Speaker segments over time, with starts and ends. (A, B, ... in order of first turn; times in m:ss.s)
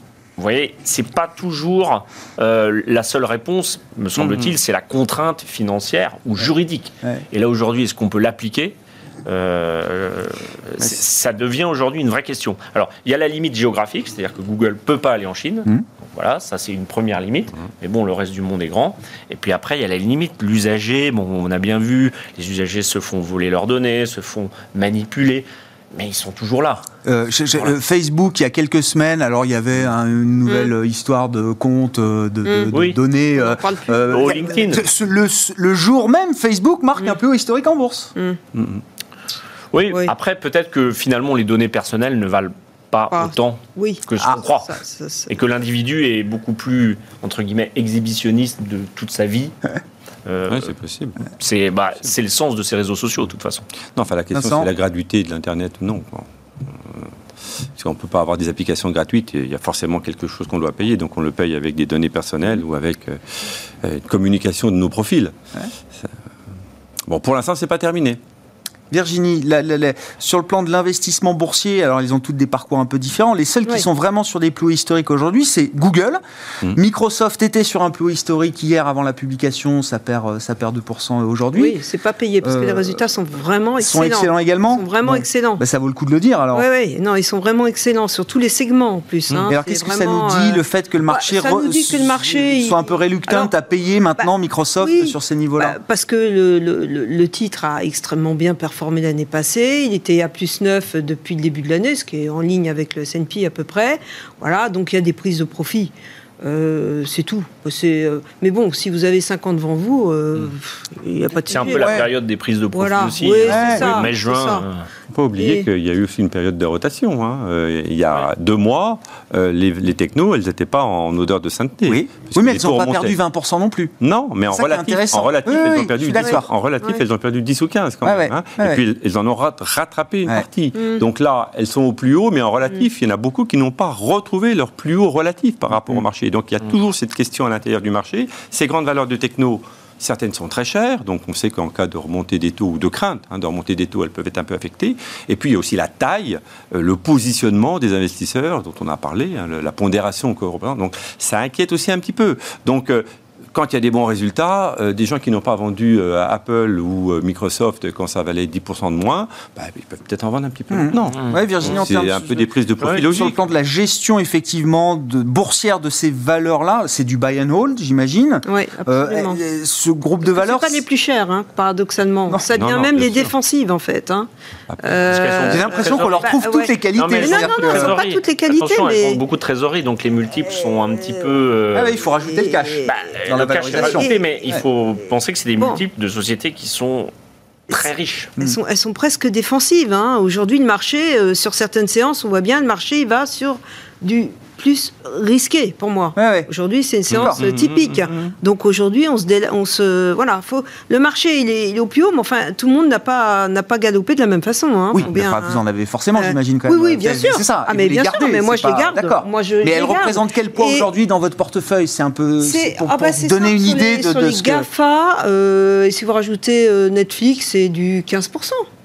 0:00.4-0:26.8 A
0:04.2-0:04.6 B
0:27.0-0:38.1 C
0:30.5-0:30.7 D
0:32.5-0:32.7 D
0:32.7-0:33.0 A
0:33.4-0:34.8 D
0:34.1-0:34.8 A
0:38.6-0:38.8 B
0:39.7-0:44.8 A
0:43.1-0:45.3 D
0:45.3-0:49.6 A
0:50.3-0:50.7 A
0:50.5-0:51.2 B
0:51.4-0:53.7 A
0:54.0-0:57.1 B
0:54.3-0:54.7 C
0:57.8-1:05.4 B
1:07.1-1:08.2 B
1:08.9-1:21.8 C
1:21.5-1:25.6 D
1:22.4-1:23.0 C
1:23.8-1:26.7 C
1:26.5-1:33.5 D
1:29.5-1:35.8 C
1:34.2-1:52.0 D
1:51.5-1:54.9 A
1:51.8-1:52.1 C
1:52.7-1:54.6 D
1:53.4-1:54.1 C
1:55.1-2:03.2 B
1:55.4-1:55.7 D
2:01.9-2:03.9 C
2:04.0-2:43.4 B
2:04.5-2:06.5 C
2:06.2-2:07.0 D
2:08.0-2:08.8 C
2:10.8-2:11.0 D
2:40.7-2:50.8 C
2:41.1-2:41.8 A
2:42.8-2:43.1 A
2:48.5-2:49.4 D
2:50.2-2:54.3 D
2:52.5-2:53.3 B
2:54.7-2:55.0 B
2:54.8-2:59.2 D
2:55.0-2:56.3 A
2:55.5-2:58.0 C
2:56.9-3:02.1 A
3:01.7-3:04.6 C
3:02.3-3:02.9 D
3:02.8-3:07.1 A
3:03.7-3:04.2 D
3:07.7-3:08.3 A
3:08.4-3:25.6 D
3:16.2-3:16.5 C
3:17.2-3:17.8 B
3:24.9-3:34.7 C
3:26.2-3:30.9 D
3:32.4-3:38.7 D